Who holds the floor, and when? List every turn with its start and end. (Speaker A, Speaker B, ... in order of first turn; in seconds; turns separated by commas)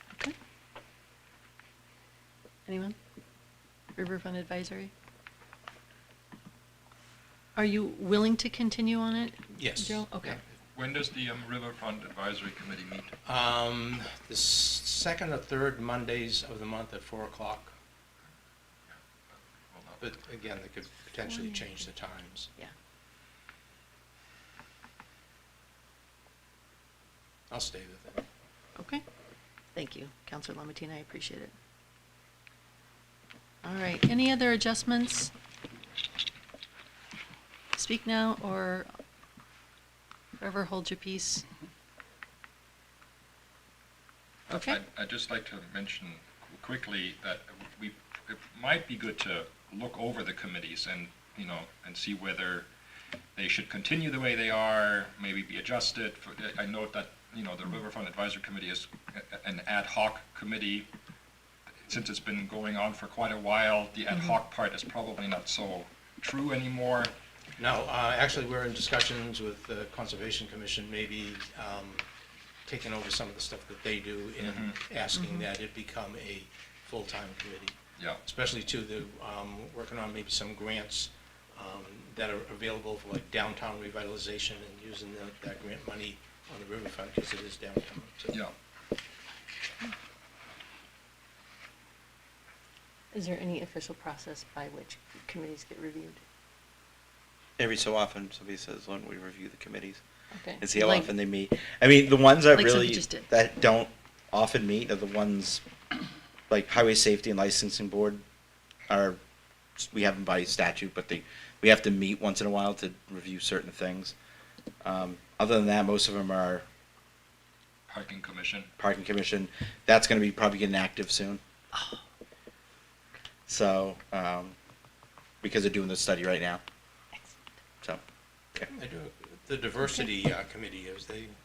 Speaker A: 2.6-3.0, Speaker A: 4.0-4.9, Speaker A: 7.5-10.4, Speaker B: 9.5-10.4, Speaker C: 10.7-13.1, Speaker B: 13.2-17.7, Speaker C: 19.7-20.0, Speaker B: 20.0-22.5, Speaker A: 21.2-21.7, Speaker B: 27.5-28.2, Speaker A: 28.8-29.0, Speaker A: 29.7-31.5, Speaker A: 33.6-35.3, Speaker A: 37.8-38.9, Speaker A: 40.4-41.4, Speaker A: 44.5-44.8, Speaker C: 44.5-52.7, Speaker C: 53.4-60.9, Speaker C: 61.9-67.1, Speaker B: 67.6-72.0, Speaker B: 72.7-88.4, Speaker C: 74.4-74.8, Speaker A: 75.1-75.5, Speaker C: 78.0-78.2, Speaker C: 88.3-88.5, Speaker A: 93.1-96.2, Speaker D: 97.6-100.0, Speaker A: 100.3-101.1, Speaker D: 100.6-105.6, Speaker A: 102.5-103.3, Speaker D: 106.5-108.2, Speaker D: 108.9-109.2, Speaker D: 109.8-114.1, Speaker D: 114.8-116.6, Speaker C: 117.9-118.7, Speaker D: 118.8-121.4, Speaker A: 121.7-122.0, Speaker D: 123.5-124.5, Speaker D: 125.4-126.6, Speaker B: 128.7-131.3